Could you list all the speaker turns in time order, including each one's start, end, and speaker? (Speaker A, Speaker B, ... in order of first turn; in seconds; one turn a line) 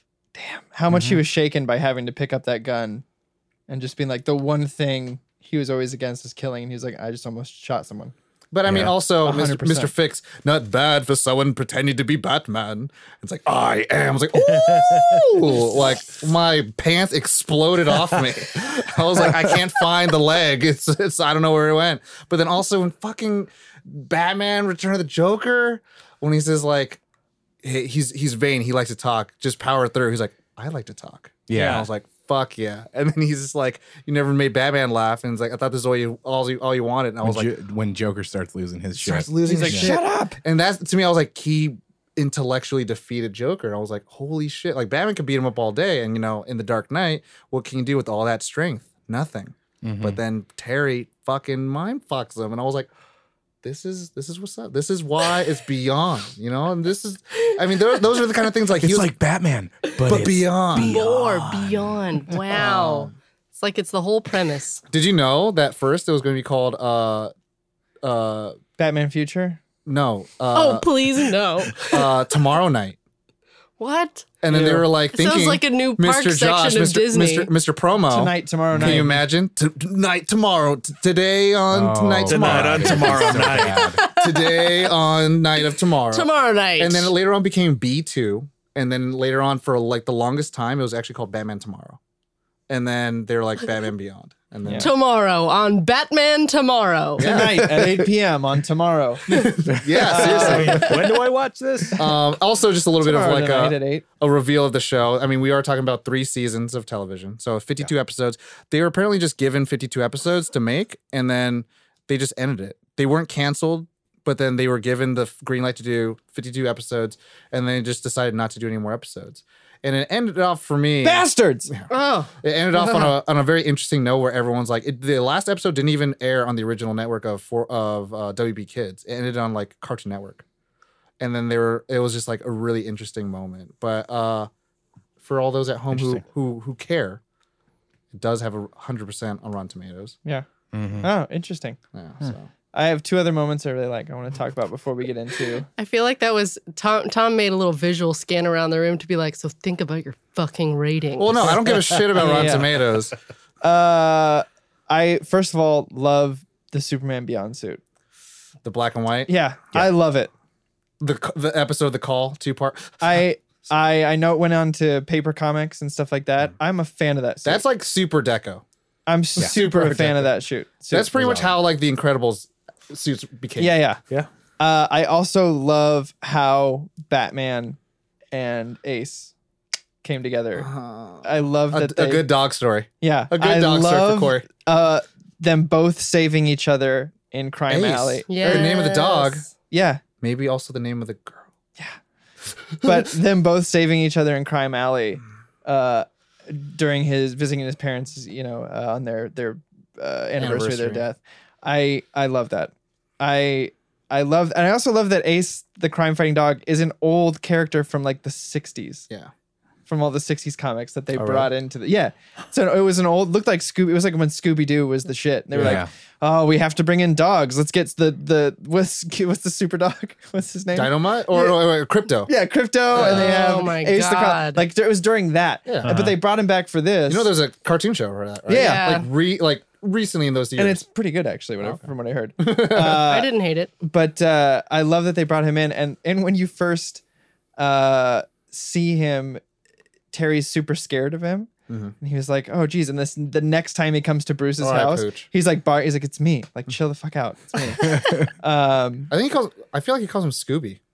Speaker A: 0.3-3.0
Speaker B: 0.9-1.2
Speaker A: 3.7-8.1
Speaker C: 8.5-27.0
Speaker D: 8.7-8.9
Speaker A: 9.2-9.9
Speaker B: 14.6-15.3
Speaker C: 27.6-37.5
Speaker D: 31.5-31.9
Speaker A: 31.5-31.9
Speaker D: 37.2-39.3
Speaker C: 39.0-52.9
Speaker A: 39.4-40.4
Speaker D: 49.8-50.2
Speaker C: 53.6-59.1
Speaker E: 57.9-58.2
Speaker D: 58.8-62.3
Speaker C: 60.0-61.0
Speaker E: 60.7-64.8
Speaker C: 62.5-63.1
Speaker C: 64.9-67.3
Speaker C: 68.0-68.6
Speaker A: 68.8-69.6
Speaker C: 69.8-70.9
Speaker E: 70.5-72.5
Speaker C: 71.8-73.0
Speaker E: 73.8-74.3
Speaker C: 74.4-92.0
Speaker A: 74.5-74.9
Speaker E: 75.1-77.5
Speaker A: 78.1-79.2
Speaker D: 81.7-84.0
Speaker B: 82.3-83.9
Speaker E: 83.8-84.9
Speaker E: 85.6-87.1
Speaker C: 92.7-94.9
Speaker E: 94.8-97.3
Speaker C: 97.2-97.8
Speaker A: 97.2-101.0
Speaker C: 99.3-101.0
Speaker B: 100.2-102.1
Speaker C: 102.0-121.9
Speaker A: 103.0-104.0
Speaker A: 121.0-121.7
Speaker E: 121.9-123.1
Speaker C: 122.4-130.4
Speaker C: 131.2-134.5
Speaker C: 135.2-137.2
Speaker B: 135.9-136.2
Speaker C: 138.1-140.1
Speaker D: 140.7-141.1
Speaker A: 141.0-141.8
Speaker C: 141.9-142.5
Speaker A: 142.7-145.7
Speaker E: 145.8-151.6
Speaker C: 151.2-153.1
Speaker A: 152.1-152.9
Speaker A: 153.6-157.8
Speaker C: 158.6-159.3
Speaker A: 159.3-160.3
Speaker C: 161.0-163.2
Speaker A: 163.0-167.6
Speaker C: 167.4-168.6
Speaker A: 169.1-171.4
Speaker C: 169.4-170.3
Speaker C: 170.9-173.8
Speaker A: 173.6-174.0
Speaker A: 174.6-177.8
Speaker A: 178.3-179.3
Speaker A: 180.0-180.7
Speaker C: 180.6-184.4
Speaker A: 181.2-182.3
Speaker A: 183.0-188.7
Speaker C: 187.7-189.5
Speaker E: 188.3-189.5
Speaker A: 189.7-190.0
Speaker C: 190.2-191.5
Speaker A: 192.8-209.1
Speaker C: 200.4-201.1
Speaker A: 209.9-221.7
Speaker B: 211.2-211.5
Speaker B: 215.5-215.8
Speaker D: 215.6-215.9
Speaker C: 220.7-222.3
Speaker A: 222.2-227.3
Speaker C: 222.9-223.4
Speaker E: 222.9-224.6
Speaker C: 225.7-225.9
Speaker B: 225.8-226.1
Speaker C: 227.1-230.8
Speaker A: 228.5-229.0
Speaker E: 228.5-229.1
Speaker A: 230.6-233.3
Speaker C: 231.6-231.9
Speaker C: 232.4-233.1
Speaker E: 233.1-233.7
Speaker A: 233.8-237.0
Speaker A: 237.6-239.4
Speaker A: 240.1-241.5
Speaker C: 241.7-241.9
Speaker A: 242.0-249.1
Speaker C: 244.6-245.3
Speaker D: 247.9-248.2
Speaker C: 249.1-250.8